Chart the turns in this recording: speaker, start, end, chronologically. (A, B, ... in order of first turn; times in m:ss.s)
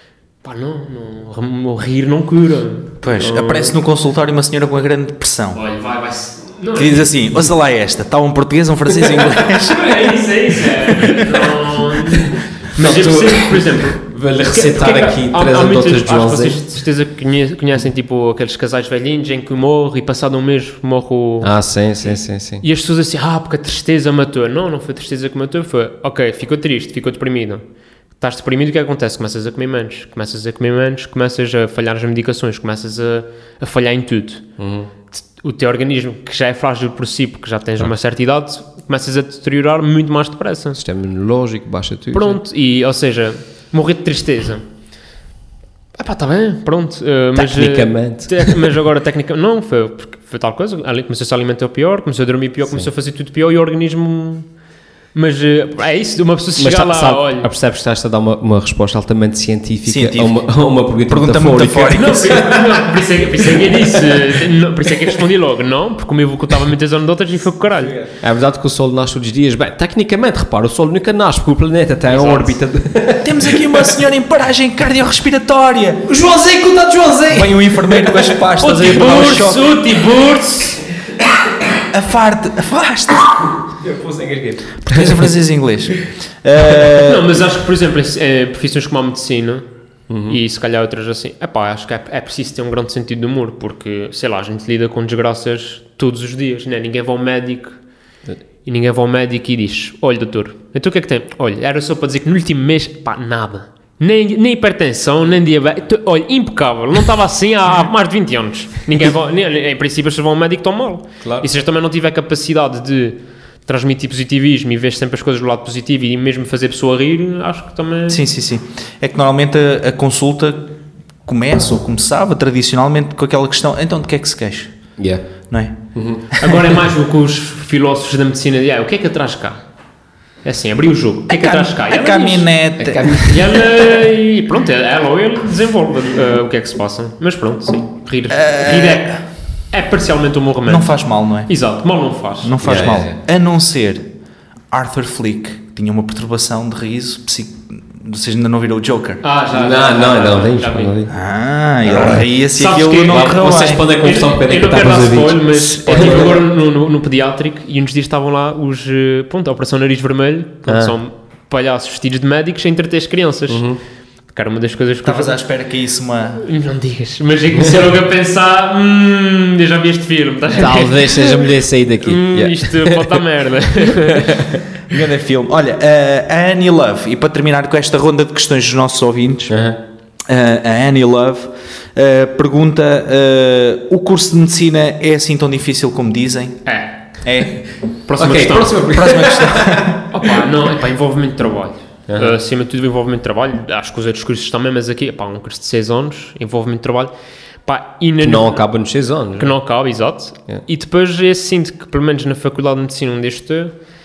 0:00.4-0:03.8 A
0:03.0-0:05.6 B
0:05.5-0:07.1 A
0:06.7-0:10.3 B
0:09.4-0:21.5 A
0:12.1-0:16.6 C
0:21.4-0:22.6 C
0:22.0-0:27.6 A
0:28.2-0:34.4 A
0:34.6-0:34.9 C
0:35.3-0:40.8 A
0:40.8-0:42.4 C
0:42.1-0:44.6 A
0:46.0-0:54.5 A
0:47.3-0:48.6 C
0:55.1-0:57.5 A
0:56.6-1:02.8 C
0:59.9-1:02.6 B
1:01.9-1:07.9 A
1:03.4-1:04.9 C
1:08.2-1:13.9 C
1:12.1-1:12.6 A
1:13.2-1:16.1 B
1:16.1-1:18.4 C
1:17.3-1:19.8 B
1:18.6-1:20.9 A
1:21.9-1:23.6 B
1:23.8-1:25.3 C
1:24.8-1:27.4 B
1:27.0-1:29.6 A
1:30.1-1:30.4 C
1:30.2-1:37.8 A
1:38.6-1:58.2 A
1:51.2-1:51.5 C
1:58.1-2:04.7 B
2:05.0-2:05.2 C
2:05.5-2:06.6 B
2:05.9-2:06.4 C
2:06.4-2:09.6 A
2:10.4-2:12.5 A
2:11.3-2:13.6 B
2:12.8-2:13.6 C
2:13.2-2:20.9 A
2:18.3-2:19.2 B
2:20.7-2:21.5 B
2:21.5-2:22.6 A
2:22.4-2:24.0 B
2:22.6-2:23.2 C
2:24.7-2:29.2 B
2:29.2-2:31.0 A
2:29.5-2:31.1 C
2:31.1-2:33.8 B
2:31.8-2:32.2 C
2:32.0-2:43.7 A
2:33.1-2:36.4 C
2:35.9-2:36.4 B
2:40.7-2:40.9 C
2:43.5-2:43.8 C
2:44.3-2:45.4 A
2:45.0-2:46.4 B
2:46.4-2:54.5 A
2:50.5-2:53.2 C
2:53.8-2:54.6 C
2:54.9-2:59.6 B
2:59.5-2:59.8 C
3:00.3-3:06.6 B
3:06.6-3:07.0 A
3:07.2-3:07.6 B
3:08.1-3:08.9 A
3:08.2-3:10.0 C
3:08.8-3:10.1 B
3:10.1-3:17.1 A
3:12.1-3:12.4 C
3:17.6-3:18.6 A
3:18.2-3:19.6 C
3:19.4-3:23.7 A